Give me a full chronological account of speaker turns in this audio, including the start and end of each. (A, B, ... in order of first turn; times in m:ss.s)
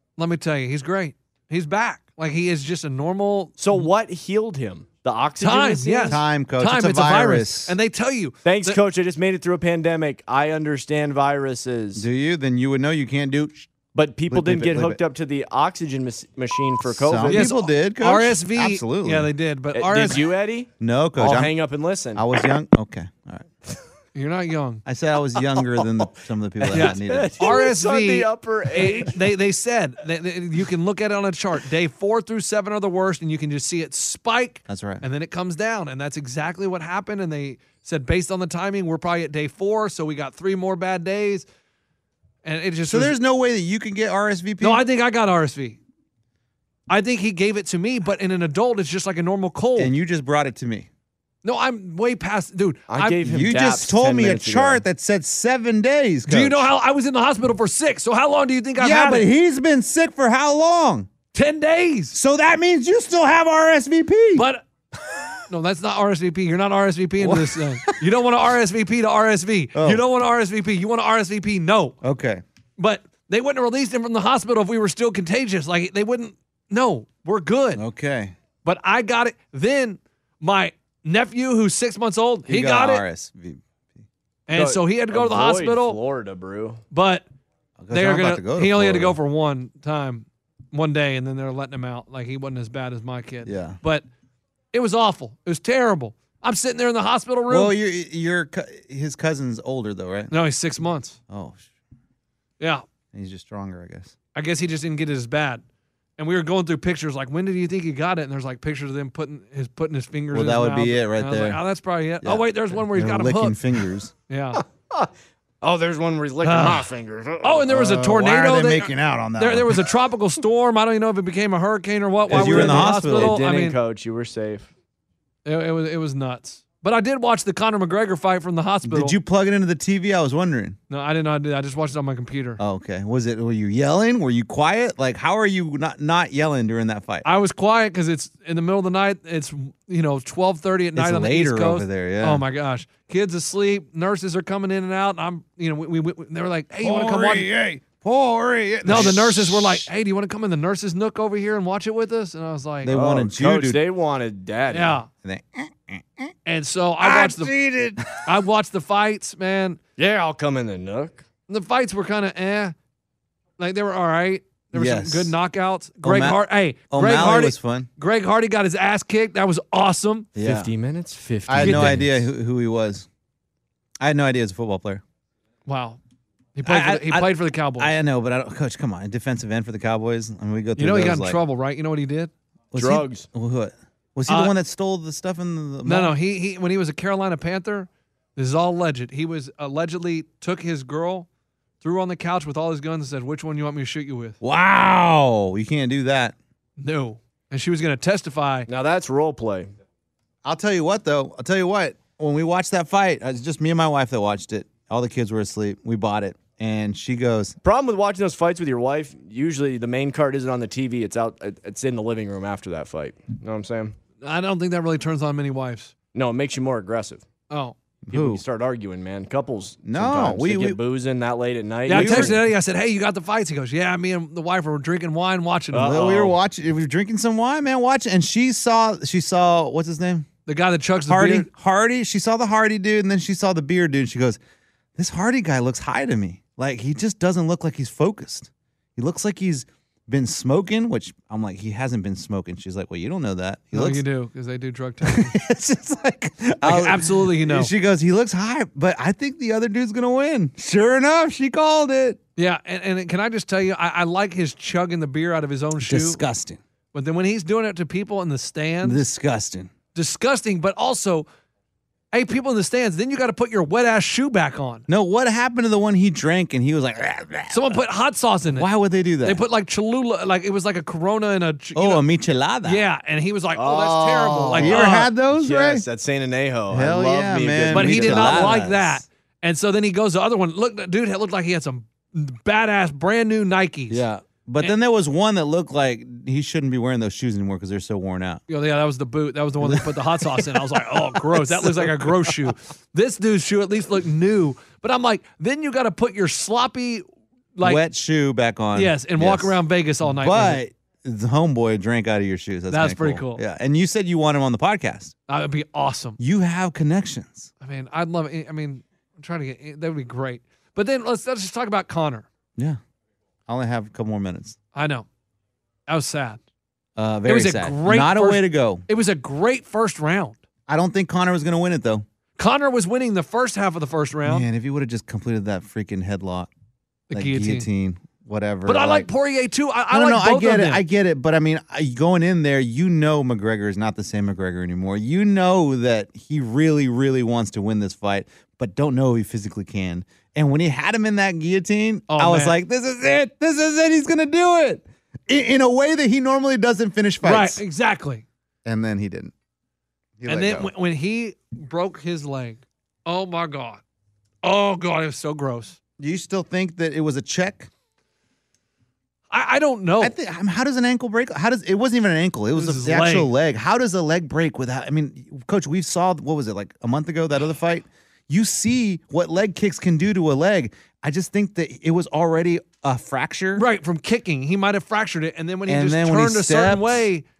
0:00.2-0:03.9 A
0:03.6-0:06.2 B
0:05.4-0:08.8 A
0:06.1-0:07.7 C
0:08.4-0:12.0 B
0:12.0-0:13.7 C
0:13.9-0:17.5 B
0:14.3-0:15.0 C
0:17.0-0:19.3 C
0:17.3-0:20.3 A
0:19.7-0:22.4 B
0:20.8-0:21.5 C
0:22.1-0:23.5 C
0:24.1-0:24.8 A
0:24.8-0:27.5 C
0:25.4-0:26.0 B
0:26.6-0:29.2 B
0:26.7-0:41.4 A
0:34.7-0:35.0 C
0:42.4-0:43.1 A
0:42.9-0:44.8 C
0:44.6-0:45.8 A
0:46.9-0:49.9 A
0:49.8-0:50.9 C
0:51.4-0:53.3 A
0:52.9-0:54.8 B
0:53.2-0:56.7 C
0:56.3-0:59.3 A
0:58.8-1:01.1 C
1:01.3-1:02.2 A
1:02.1-1:04.5 C
1:04.3-1:04.6 A
1:05.5-1:12.0 A
1:07.2-1:08.0 C
1:09.7-1:10.0 C
1:12.0-1:12.4 C
1:12.8-1:17.8 A
1:17.8-1:18.3 C
1:18.6-1:23.0 A
1:22.5-1:23.6 C
1:24.5-1:26.0 A
1:24.5-1:26.8 B
1:26.9-1:27.2 A
1:27.8-1:29.2 C
1:27.9-1:34.0 A
1:33.4-1:33.8 C
1:34.7-1:37.7 A
1:37.5-1:40.3 C
1:40.3-1:41.2 A
1:41.3-1:41.6 C
1:43.1-1:44.1 C
1:44.3-1:45.6 A
1:46.2-1:54.6 A
1:50.3-1:51.6 C
1:52.2-1:54.1 C
1:54.6-1:55.1 B
1:55.6-1:57.7 B
1:56.4-1:56.9 A
1:57.4-2:03.8 A
1:57.7-1:59.8 C
2:02.3-2:03.4 C
2:02.3-2:04.7 B
2:05.4-2:09.2 A
2:08.8-2:10.8 C
2:10.9-2:12.6 A
2:12.6-2:17.2 C
2:17.2-2:27.5 A
2:20.9-2:22.4 C
2:26.8-2:29.8 C
2:28.8-2:32.9 A
2:32.8-2:33.8 C
2:32.8-2:35.0 B
2:34.7-2:35.1 A
2:35.2-2:36.3 C
2:36.4-2:37.5 A
2:37.0-2:38.2 C
2:38.2-2:39.8 A
2:40.0-2:41.2 B
2:41.5-2:42.7 A
2:43.6-2:50.3 A
2:44.7-2:45.4 C
2:46.0-2:47.9 C
2:50.3-2:50.7 C
2:50.4-2:52.2 B
2:51.5-2:53.1 C
2:51.6-2:52.0 A
2:54.0-2:55.0 C
2:55.6-2:56.0 A
2:56.5-2:57.9 A
2:56.6-3:01.4 C
3:00.8-3:02.3 A
3:02.7-3:06.1 C
3:02.8-3:03.3 B
3:04.3-3:04.5 A
3:05.8-3:11.3 A
3:11.8-3:14.4 A
3:14.4-3:16.3 C
3:16.8-3:18.7 A
3:18.7-3:19.7 B
3:20.4-3:27.6 C
3:27.6-3:34.0 B
3:34.2-3:35.9 A
3:36.1-3:37.2 B
3:37.5-3:37.8 A
3:38.0-3:38.4 C
3:38.1-3:42.4 B
3:39.8-3:40.8 C
3:41.9-3:46.0 A
3:41.9-3:42.4 C
3:45.7-3:46.4 B
3:45.8-3:50.3 C
3:50.4-3:51.5 A
3:51.1-3:54.4 C
3:55.0-4:04.0 C
4:03.7-4:05.3 A
4:05.0-4:12.2 C
4:06.6-4:07.7 A
4:12.4-4:16.2 A
4:15.8-4:16.6 C
4:16.9-4:19.0 A
4:18.8-4:19.7 C
4:19.9-4:21.3 A
4:22.1-4:24.8 A
4:24.9-4:27.8 C
4:27.5-4:28.7 A
4:28.5-4:29.4 C
4:29.2-4:32.0 A
4:31.7-4:32.8 C
4:32.6-4:35.1 A
4:33.5-4:38.6 B
4:34.5-4:35.8 C
4:36.7-4:39.0 C
4:37.7-4:44.0 A
4:43.9-4:48.4 C
4:48.5-4:57.8 A
4:49.6-4:52.1 C
4:57.6-5:05.1 C
4:58.7-5:00.6 A
5:02.7-5:03.4 A
5:05.3-5:06.2 A
5:06.2-5:07.5 C
5:07.6-5:12.3 A
5:13.5-5:14.6 C
5:14.7-5:15.0 A
5:15.9-5:16.4 A
5:17.0-5:18.8 C
5:17.2-5:20.4 A
5:20.7-5:22.0 C
5:22.4-5:24.4 A
5:24.2-5:26.5 C
5:27.1-5:27.7 A
5:27.1-5:29.1 C
5:28.6-5:30.8 A
5:29.9-5:47.6 C
5:42.1-5:42.6 A
5:47.2-5:48.2 A
5:48.6-5:49.3 C
5:50.2-5:50.7 C
5:50.2-5:53.8 A
5:54.4-5:55.8 A
5:56.0-5:57.7 C
5:59.3-6:00.1 A
6:00.0-6:13.6 C
6:02.5-6:03.3 A
6:13.6-6:17.2 A
6:15.6-6:17.1 C